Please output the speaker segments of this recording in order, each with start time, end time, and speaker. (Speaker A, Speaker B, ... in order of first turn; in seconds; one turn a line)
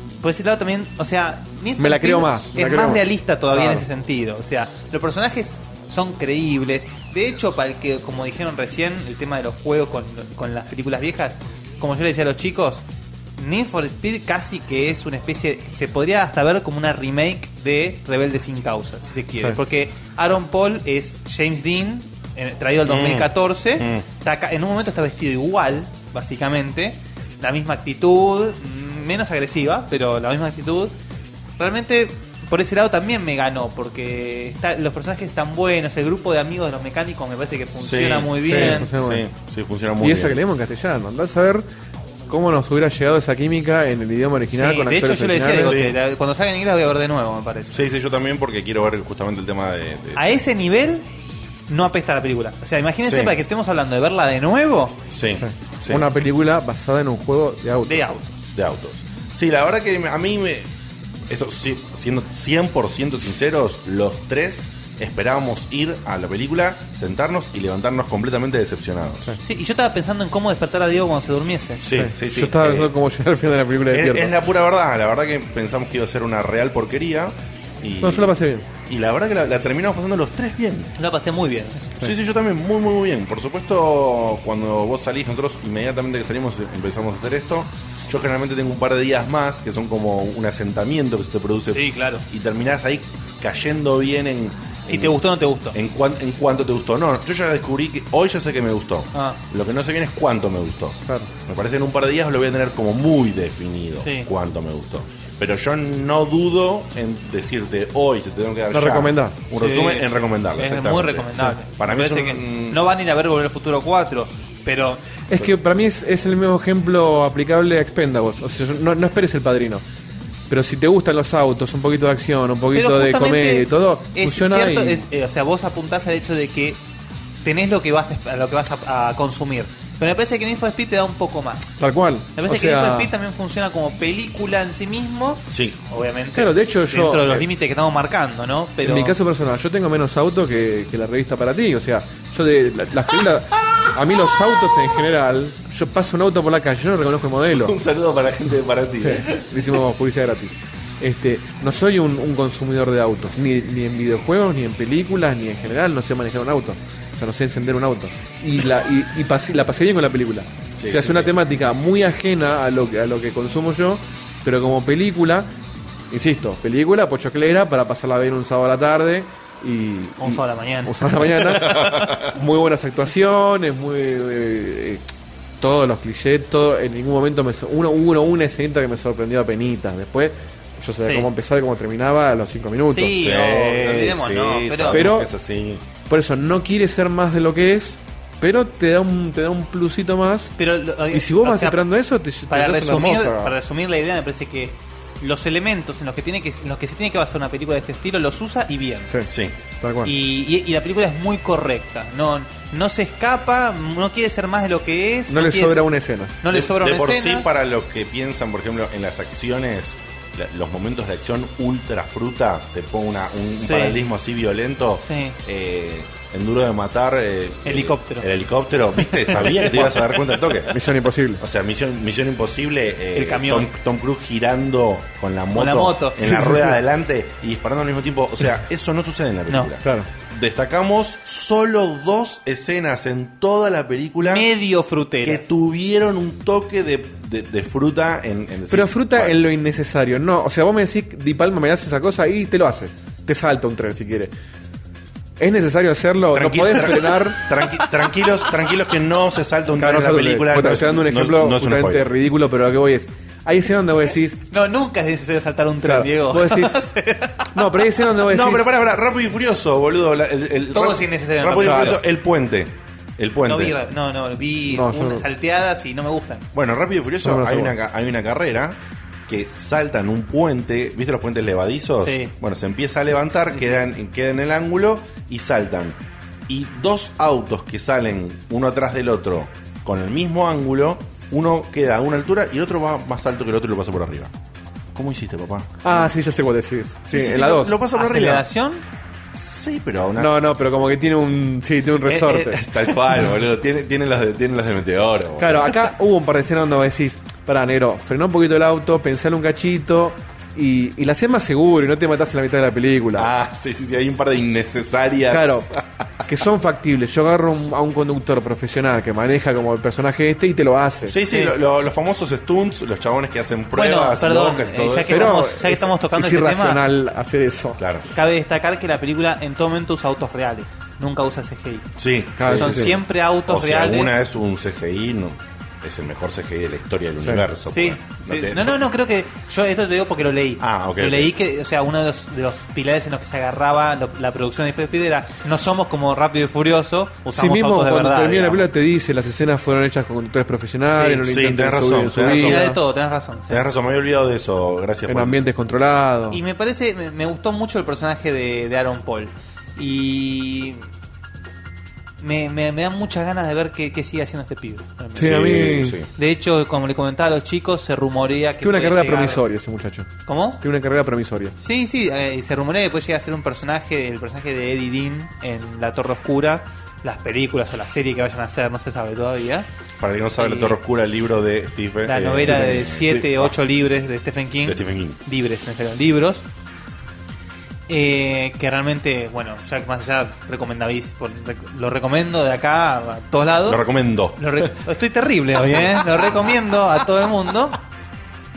Speaker A: 0.2-12.8
Speaker B: 1.8-3.9
Speaker A: 13.4-30.9
Speaker C: 22.8-24.1
Speaker A: 31.6-38.9
Speaker C: 37.8-40.4
Speaker B: 38.4-39.2
Speaker B: 40.0-41.6
Speaker B: 42.3-45.8
Speaker A: 44.5-47.8
Speaker C: 45.6-45.9
Speaker C: 47.7-50.3
Speaker A: 50.1-51.0
Speaker A: 51.7-55.0
Speaker C: 53.0-53.4
Speaker C: 55.1-56.0
Speaker B: 55.4-58.1
Speaker A: 57.8-58.3
Speaker C: 58.5-60.7
Speaker C: 61.3-69.4
Speaker A: 69.4-71.8
Speaker C: 71.8-72.9
Speaker B: 71.9-74.3
Speaker C: 73.9-80.9
Speaker B: 78.0-78.6
Speaker A: 81.0-81.9
Speaker C: 82.0-112.8
Speaker A: 91.7-92.2
Speaker A: 94.9-95.8
Speaker A: 99.1-99.4
Speaker A: 104.0-104.3
Speaker B: 108.7-109.4
Speaker A: 109.5-115.0
Speaker B: 115.3-119.8
Speaker B: 120.5-125.0
Speaker A: 122.7-126.8
Speaker A: 127.4-131.7
Speaker B: 131.8-133.1
Speaker A: 132.3-139.2
Speaker C: 135.5-135.8
Speaker B: 136.3-137.5
Speaker B: 138.8-147.8
Speaker C: 147.5-149.7
Speaker B: 149.0-165.5
Speaker C: 160.8-161.3
Speaker B: 166.1-175.0
Speaker A: 170.2-171.7
Speaker C: 171.5-172.3
Speaker B: 175.6-183.1
Speaker A: 181.0-181.3
Speaker A: 182.9-185.1
Speaker C: 183.1-185.8
Speaker B: 184.9-185.3
Speaker B: 186.1-190.6
Speaker A: 190.6-191.8
Speaker B: 191.1-193.5
Speaker A: 192.5-199.2
Speaker C: 199.3-199.6
Speaker B: 199.8-200.1
Speaker A: 200.0-205.9
Speaker B: 205.3-206.4
Speaker A: 206.4-207.5
Speaker C: 206.5-220.9
Speaker A: 213.6-214.0
Speaker A: 215.0-215.4
Speaker A: 217.6-218.3
Speaker A: 218.9-220.2
Speaker B: 220.7-221.4
Speaker C: 221.4-234.5
Speaker A: 223.1-223.7
Speaker A: 225.5-226.8
Speaker B: 229.8-230.1
Speaker A: 234.2-235.5
Speaker C: 235.2-239.4
Speaker B: 238.7-244.3
Speaker B: 245.4-247.7
Speaker C: 246.3-252.1
Speaker B: 249.7-254.4
Speaker A: 254.5-257.9
Speaker B: 255.8-256.9
Speaker B: 257.5-258.7
Speaker C: 258.3-263.8
Speaker A: 260.7-262.0
Speaker B: 261.6-262.0
Speaker A: 263.4-266.5
Speaker B: 264.7-265.2
Speaker C: 266.5-284.3
Speaker B: 267.2-267.7
Speaker A: 272.0-272.3
Speaker A: 273.5-273.9
Speaker C: 284.9-286.1
Speaker B: 285.8-287.8
Speaker C: 287.1-288.5
Speaker A: 287.9-288.8
Speaker C: 289.3-290.3
Speaker B: 290.2-292.7
Speaker C: 292.0-295.9
Speaker B: 295.4-303.3
Speaker C: 303.2-305.8
Speaker B: 305.3-305.7
Speaker B: 306.2-311.1
Speaker C: 311.1-315.3
Speaker A: 311.3-311.6
Speaker A: 313.7-316.8
Speaker B: 315.1-317.8
Speaker C: 317.8-318.1
Speaker A: 318.1-321.9
Speaker C: 321.9-328.9
Speaker B: 322.4-322.9
Speaker A: 322.4-324.2
Speaker A: 327.7-338.7
Speaker C: 330.6-331.3
Speaker B: 337.3-342.8
Speaker A: 340.9-341.3
Speaker C: 341.2-342.6
Speaker A: 342.2-343.6
Speaker C: 343.5-345.4
Speaker B: 345.1-346.4
Speaker A: 346.3-350.8
Speaker A: 352.2-355.6
Speaker C: 355.1-356.1
Speaker B: 355.2-356.0
Speaker A: 356.1-359.4
Speaker B: 358.6-361.5
Speaker A: 360.3-360.6
Speaker A: 361.6-369.7
Speaker C: 370.0-373.6
Speaker A: 370.4-370.8
Speaker A: 372.0-376.5
Speaker C: 374.6-375.2
Speaker A: 377.9-383.8
Speaker C: 383.6-384.9
Speaker A: 384.4-387.8